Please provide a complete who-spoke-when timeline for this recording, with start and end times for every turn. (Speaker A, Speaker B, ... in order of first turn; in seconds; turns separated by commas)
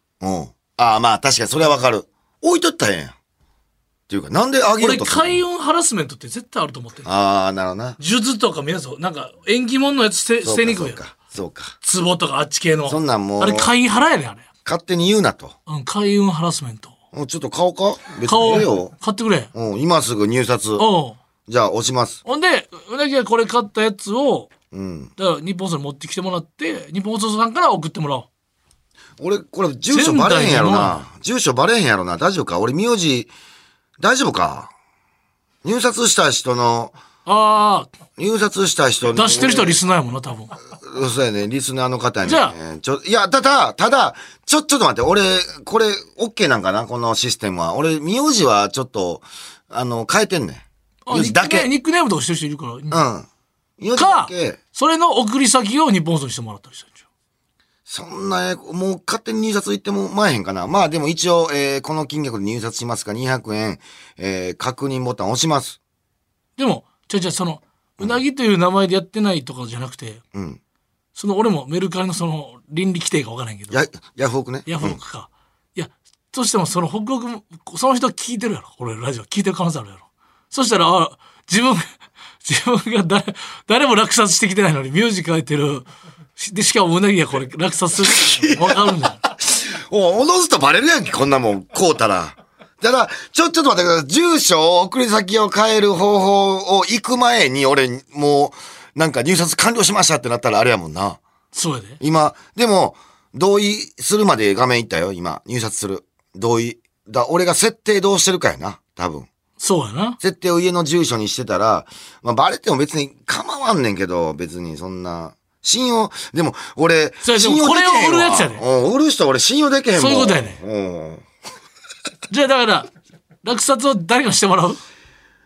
Speaker A: 0.2-3.1, Speaker A: 4.1-5.4, Speaker B: 4.8-7.1, Speaker A: 7.0-8.0, Speaker B: 8.0-11.0, Speaker A: 10.4-11.7, Speaker B: 11.8-14.4, Speaker A: 12.9-13.7, Speaker A: 14.7-15.5, Speaker B: 15.7-16.9, Speaker A: 17.1-18.9, Speaker B: 18.2-19.5, Speaker A: 19.5-20.8, Speaker B: 20.8-21.2, Speaker A: 21.5-22.2, Speaker B: 22.2-24.5, Speaker A: 24.7-25.1, Speaker B: 25.2-28.3, Speaker A: 29.2-33.3, Speaker B: 29.9-31.0, Speaker A: 34.0-34.7, Speaker A: 35.6-36.9, Speaker B: 37.2-37.9, Speaker A: 38.2-39.8, Speaker B: 39.1-40.5, Speaker A: 40.8-51.7, Speaker B: 42.2-42.5, Speaker B: 51.0-53.0, Speaker A: 52.9-53.3, Speaker A: 53.8-54.6, Speaker B: 54.0-57.0, Speaker A: 57.9-65.8, Speaker B: 66.6-70.2, Speaker B: 71.1-73.8, Speaker A: 73.7-75.0, Speaker B: 74.7-81.8, Speaker B: 82.4-89.2, Speaker A: 88.0-88.9, Speaker A: 89.4-101.2, Speaker B: 101.5-102.0, Speaker A: 102.0-109.3, Speaker B: 109.6-110.2, Speaker A: 110.2-121.2, Speaker B: 117.2-118.6, Speaker B: 120.0-120.6, Speaker B: 122.3-122.9, Speaker B: 123.4-124.8